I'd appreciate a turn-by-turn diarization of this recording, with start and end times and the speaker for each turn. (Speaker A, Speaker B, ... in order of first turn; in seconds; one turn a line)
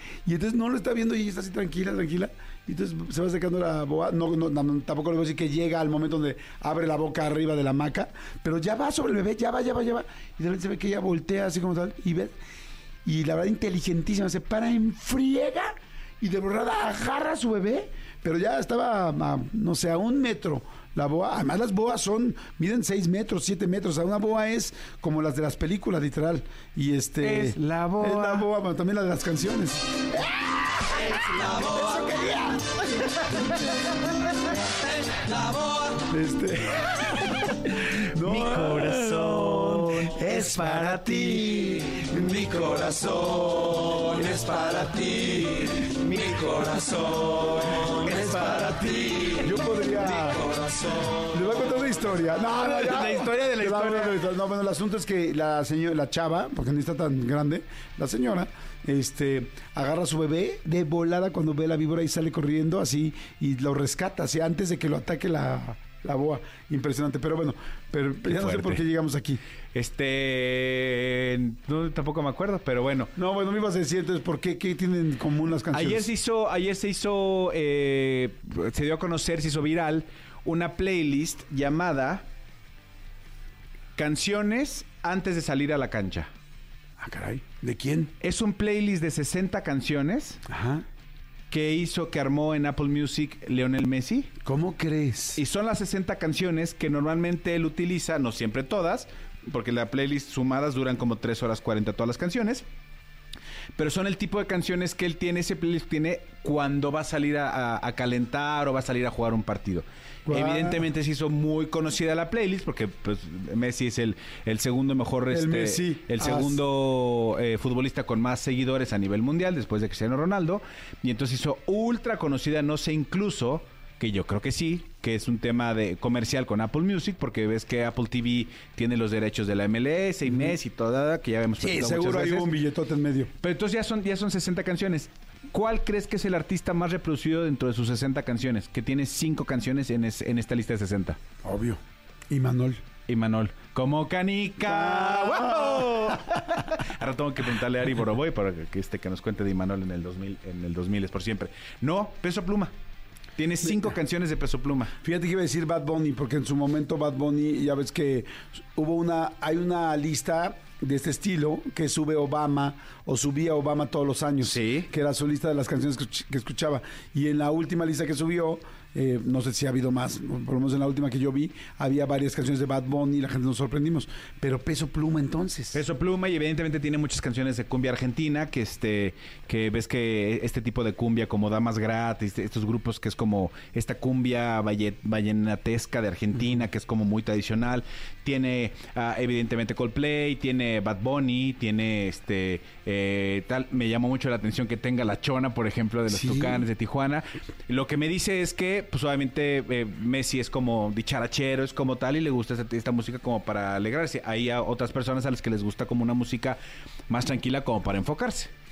Speaker A: 0.2-12.3
Speaker A: 13.0-33.1
Speaker B: 27.2-28.5
Speaker A: 36.0-37.5
Speaker B: 37.9-41.0
Speaker A: 38.1-45.7
Speaker B: 42.2-43.0
Speaker B: 45.7-49.5
Speaker A: 49.4-50.5
Speaker B: 50.2-51.1
Speaker A: 51.2-69.4
Speaker B: 52.5-54.2
Speaker B: 68.3-68.8
Speaker B: 69.7-73.1
Speaker A: 73.2-76.1
Speaker B: 75.7-82.2
Speaker B: 84.0-86.3
Speaker A: 87.0-88.1
Speaker B: 88.2-90.4
Speaker A: 90.5-90.8
Speaker B: 91.5-94.3
Speaker A: 94.4-95.4
Speaker B: 95.3-102.6
Speaker B: 103.8-132.5
Speaker A: 110.3-110.8
Speaker A: 115.3-116.6
Speaker A: 130.3-130.5
Speaker A: 131.6-133.3
Speaker B: 133.4-141.2
Speaker A: 141.4-142.8
Speaker B: 143.1-152.7
Speaker A: 144.6-146.2
Speaker B: 153.4-154.9
Speaker A: 155.0-175.8
Speaker B: 164.4-164.9
Speaker B: 175.7-208.5
Speaker A: 196.1-196.7